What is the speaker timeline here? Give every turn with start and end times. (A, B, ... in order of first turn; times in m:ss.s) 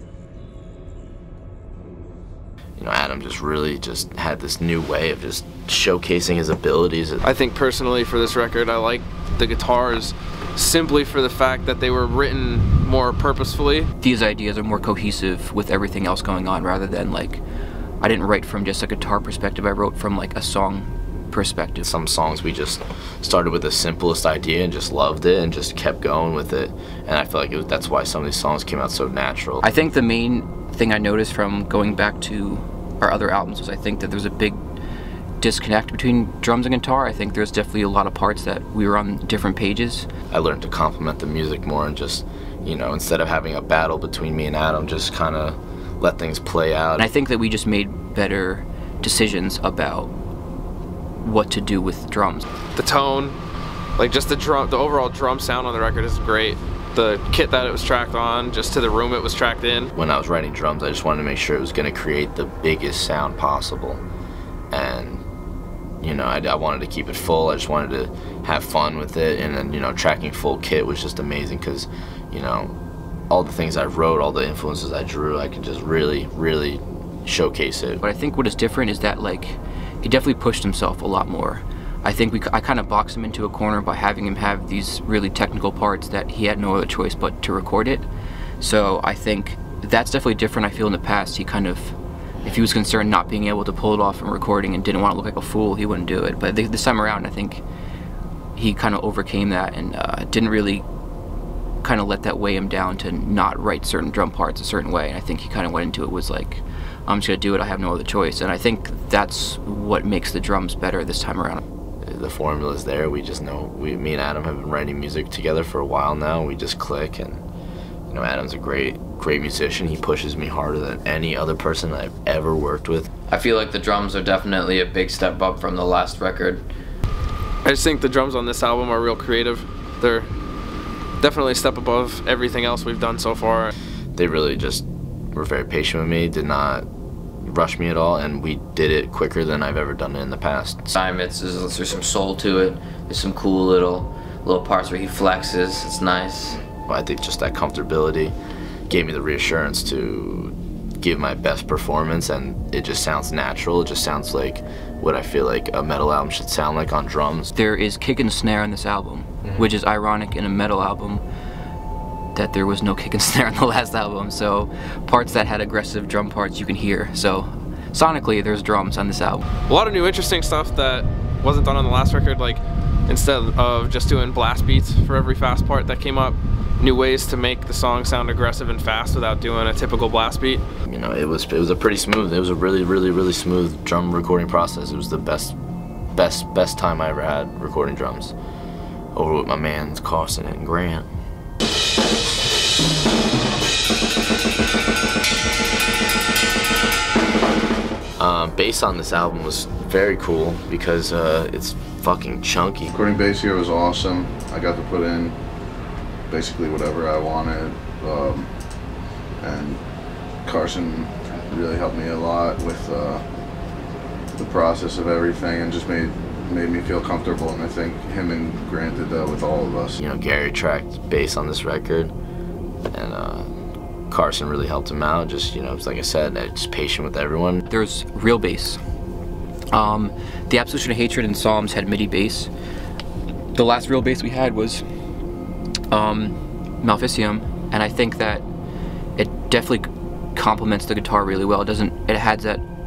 0:02.8-0:07.2 A
0:07.2-0:13.9 B
0:14.0-0:17.4 C
0:18.0-0:21.9 C
0:21.8-0:29.7 A
0:29.6-0:34.6 C
0:35.4-0:40.1 C
0:40.3-0:47.1 A
0:47.0-0:50.1 C
0:51.2-0:52.4 C
0:52.8-0:53.4 B
0:54.0-0:59.9 B
1:00.0-1:04.0 A
1:04.7-1:05.2 A
1:06.0-1:12.7 A
1:13.3-1:18.0 A
1:18.0-1:28.1 C
1:28.6-1:37.6 C
1:38.6-1:40.8 C
1:41.8-1:51.6 C
1:52.0-1:57.4 A
1:58.1-2:03.1 A
2:03.3-2:06.7 D
2:07.6-2:10.3 B
2:11.2-2:13.7 B
2:14.2-2:16.9 A
2:17.4-2:20.9 A
2:20.9-2:26.6 D
2:26.9-2:28.4 A
2:28.9-2:37.5 A
2:37.5-2:41.2 C
2:42.4-2:49.5 C
2:49.7-3:00.6 B
3:00.9-3:05.6 A
3:06.1-3:08.4 A
3:09.2-3:11.1 A
3:18.2-3:22.9 A
3:22.9-3:25.4 E
3:26.3-3:28.5 E
3:29.4-3:29.8 E
3:30.4-3:33.2 E
3:34.4-3:40.0 E
3:40.0-3:42.1 A
3:42.9-3:43.5 A
3:44.1-3:47.6 A
3:47.7-3:48.8 C
3:49.7-3:52.5 C
3:53.5-3:54.8 C
3:55.9-3:58.4 C
3:59.2-4:02.6 C